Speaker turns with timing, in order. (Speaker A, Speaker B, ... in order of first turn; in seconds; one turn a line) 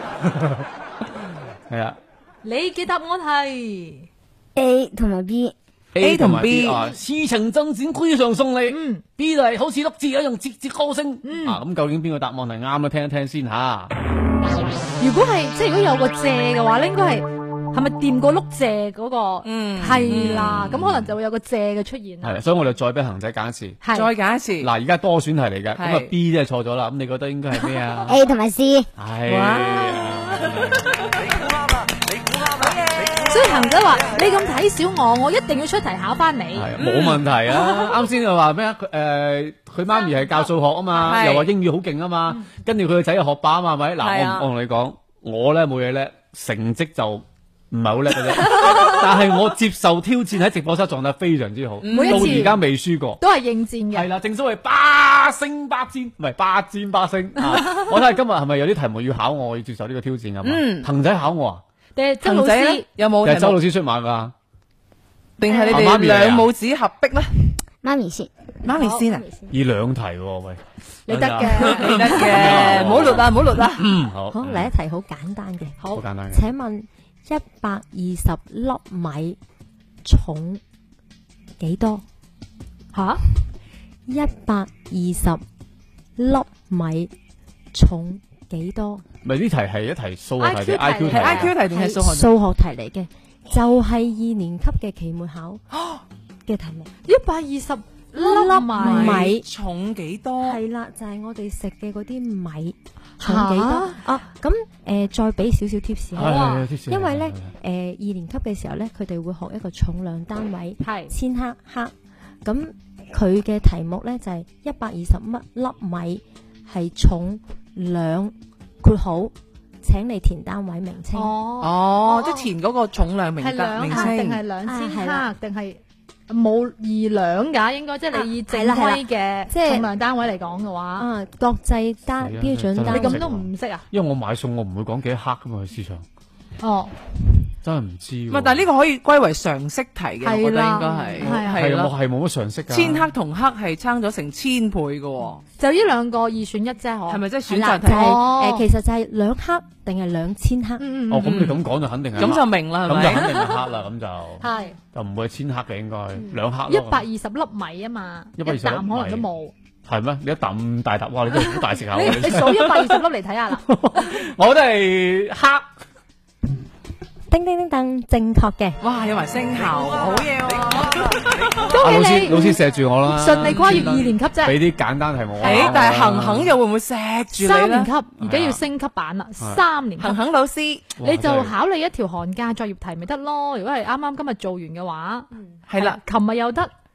Speaker A: 0.2-0.7
Speaker A: 1.7-2.0
Speaker B: 2.4-4.1
Speaker C: 4.6-5.5
Speaker A: 5.9-13.9
Speaker D: 6.0-6.8
Speaker B: 8.7-9.0
Speaker B: 11.2-11.6
Speaker B: 15.0-22.4
Speaker D: 19.4-20.6
Speaker A: 19.9-21.1
Speaker A: 22.2-23.8
Speaker B: 23.8-24.1
Speaker D: 23.9-24.7
Speaker A: 24.6-28.2
Speaker D: 25.8-26.1
Speaker C: 28.1-28.9
Speaker A: 29.0-30.7
Speaker D: 29.3-30.0
Speaker B: 33.3-37.0
Speaker A: 36.5-53.2
Speaker D: 36.9-37.1
Speaker B: 37.6-38.0
Speaker D: 41.0-41.5
Speaker D: 44.0-44.5
Speaker B: 48.5-49.0
Speaker D: 51.8-52.5
Speaker B: 51.9-52.6
Speaker B: 53.2-54.1
Speaker A: 53.9-61.6
Speaker D: 60.4-60.9
Speaker B: 62.0-62.9
Speaker D: 62.2-63.6
Speaker A: 63.2-64.3
Speaker D: 65.4-67.5
Speaker B: 65.5-65.8
Speaker A: 65.7-66.5
Speaker C: 67.8-68.3
Speaker D: 68.6-69.2
Speaker B: 68.7-69.2
Speaker A: 69.5-74.7
Speaker B: 71.1-72.5
Speaker D: 71.4-73.9
Speaker E: 74.3-79.4
Speaker A: 75.9-76.5
Speaker E: 80.0-80.6
Speaker E: 81.6-82.0
Speaker B: 82.9-83.3
Speaker E: 84.1-85.4
Speaker E: 86.2-87.1
Speaker E: 87.7-89.0
Speaker A: 89.2-91.5
Speaker B: 90.4-91.5
Speaker D: 91.1-92.3
Speaker E: 91.7-95.6
Speaker D: 95.7-96.0
Speaker E: 96.5-96.9
Speaker B: 97.1-99.3
Speaker E: 98.2-99.5
Speaker D: 98.3-100.6
Speaker E: 100.4-111.9
Speaker B: 103.2-104.0
Speaker A: 106.2-107.5
Speaker B: 106.2-106.7
Speaker B: 110.8-111.1
Speaker E: 112.4-121.4
Speaker B: 121.1-122.5
Speaker D: 121.6-124.4
Speaker B: 123.4-131.1
Speaker E: 123.9-125.3
Speaker E: 128.1-129.9
Speaker E: 131.0-133.3
Speaker A: 132.2-136.1
Speaker B: 132.9-133.8
Speaker B: 136.6-136.9
Speaker A: 137.6-138.7
Speaker D: 138.3-141.9
Speaker B: 140.2-141.7
Speaker A: 141.2-143.1
Speaker D: 142.7-145.4
Speaker B: 145.6-147.2
Speaker D: 147.1-148.2
Speaker E: 147.5-150.8
Speaker B: 147.8-148.7
Speaker B: 150.8-151.5
Speaker A: 151.1-157.1
Speaker D: 151.2-151.6
Speaker D: 152.2-153.6
Speaker B: 154.4-154.8
Speaker B: 156.7-159.5
Speaker A: 158.4-159.3
Speaker A: 159.9-163.0
Speaker B: 161.4-164.2
Speaker A: 163.7-165.7
Speaker E: 167.3-168.8
Speaker D: 168.8-171.2
Speaker B: 171.6-174.6
Speaker A: 171.8-176.5
Speaker D: 173.4-174.1
Speaker D: 175.4-177.9
Speaker B: 175.4-175.7
Speaker B: 177.3-180.2
Speaker A: 178.2-178.6
Speaker D: 180.0-180.9
Speaker A: 181.0-181.6
Speaker B: 181.0-186.7
Speaker D: 185.7-186.0